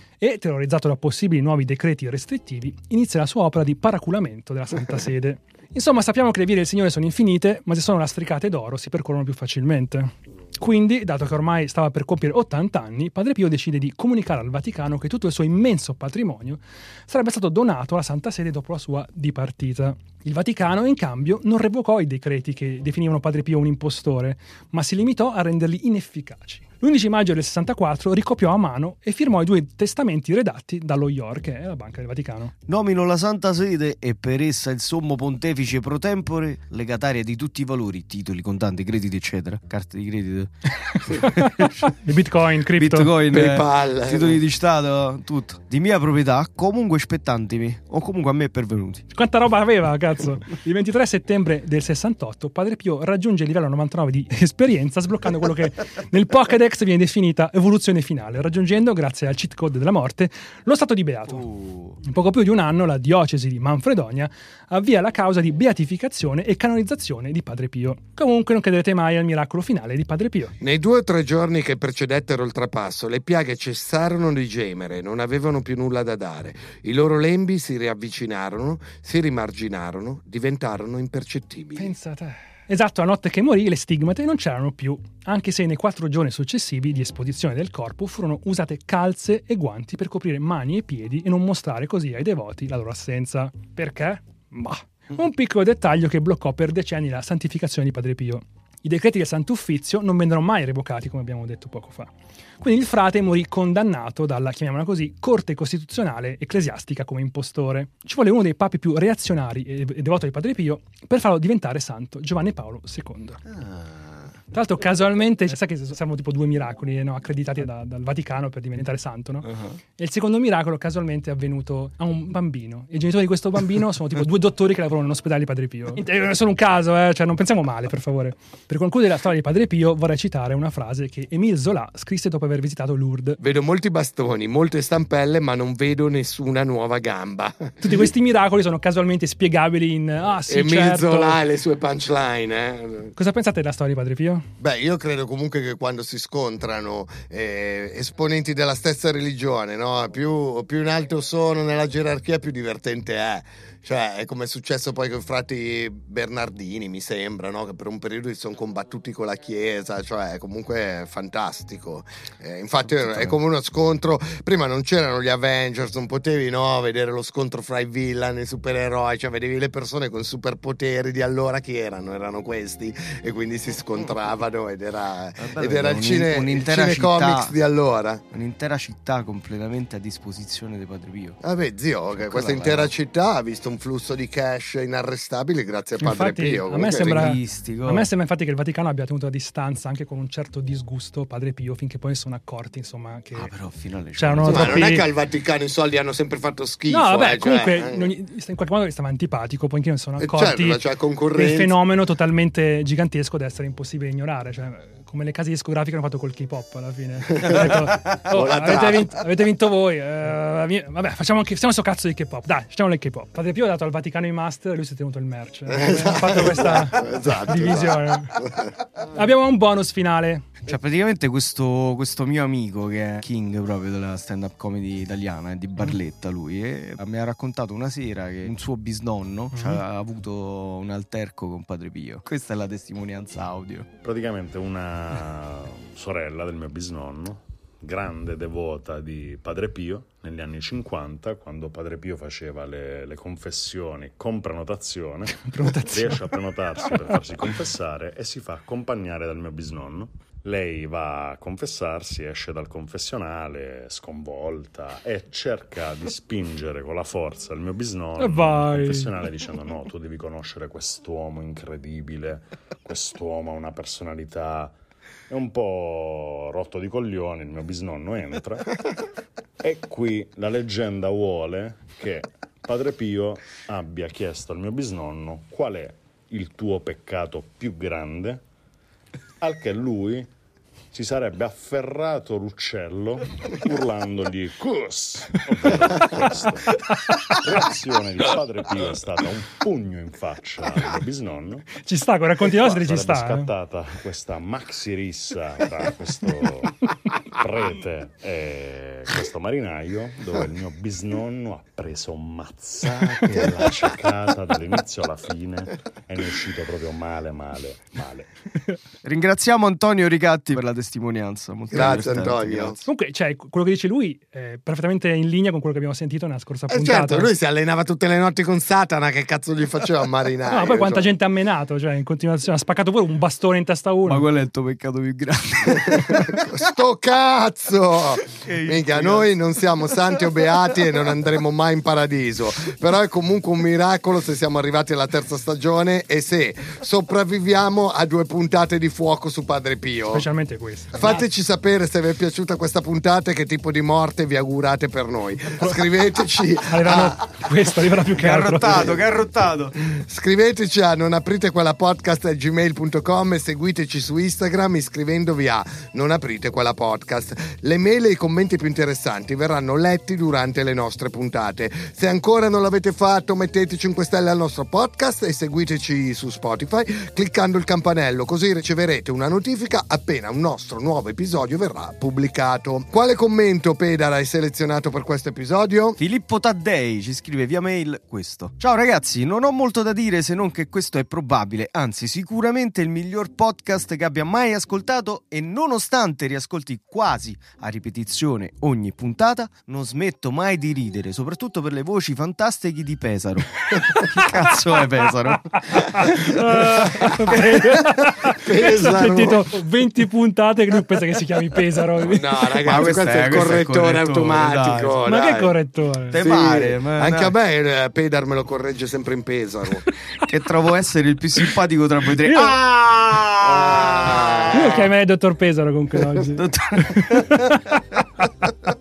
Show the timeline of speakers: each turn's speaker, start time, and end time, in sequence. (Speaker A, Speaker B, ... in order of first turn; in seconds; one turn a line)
Speaker A: 0.2-32.5
Speaker B: 32.7-41.7
Speaker A: 41.0-43.1
Speaker B: 42.8-49.0
Speaker C: 43.3-44.4
Speaker A: 49.1-61.5
Speaker B: 61.3-62.0
Speaker A: 62.0-70.5
Speaker C: 70.6-81.9
Speaker A: 81.8-113.4
Speaker B: 113.5-114.3
Speaker A: 114.5-133.4
Speaker B: 119.5-119.8
Speaker C: 133.4-137.8
Speaker A: 137.8-141.4
Speaker C: 140.5-143.1
Speaker A: 143.2-144.5
Speaker C: 144.6-178.2
Speaker B: 175.4-177.5
Speaker B: 178.3-181.4
Speaker C: 181.4-187.3
Speaker B: 182.2-182.9
Speaker A: 186.0-193.5
Speaker B: 187.0-188.1
Speaker B: 193.3-195.0
Speaker A: 194.2-195.1
Speaker C: 194.4-198.1
Speaker A: 196.9-218.4
Speaker C: 200.2-201.8
Speaker C: 208.3-209.2
Speaker C: 215.7-218.7
Speaker A: 219.1-220.6
Speaker B: 220.7-233.9
Speaker A: 229.5-229.8
Speaker D: 234.0-264.8
Speaker A: 245.4-246.3
Speaker A: 258.2-259.1
Speaker D: 265.3-268.8
Speaker D: 269.6-278.4
Speaker D: 279.4-280.3
Speaker D: 280.9-291.8
Speaker A: 291.8-293.5
Speaker D: 292.5-308.3
Speaker B: 309.0-312.9
Speaker C: 311.7-312.8
Speaker A: 312.9-317.3
Speaker C: 316.7-321.1
Speaker A: 320.5-324.2
Speaker B: 324.1-326.5
Speaker C: 325.9-340.3
Speaker B: 328.4-329.3
Speaker A: 340.1-341.2
Speaker C: 340.9-347.4
Speaker A: 346.7-348.9
Speaker B: 348.2-349.8
Speaker C: 349.9-376.0
Speaker B: 376.0-396.3
Speaker A: 395.9-402.5
Speaker C: 398.4-399.4
Speaker C: 402.0-405.5
Speaker B: 402.6-405.0
Speaker A: 405.1-406.2
Speaker B: 406.1-407.3
Speaker C: 406.1-409.9
Speaker B: 410.2-414.8
Speaker A: 412.2-412.6
Speaker C: 413.4-414.9
Speaker A: 414.5-417.6
Speaker B: 416.4-418.0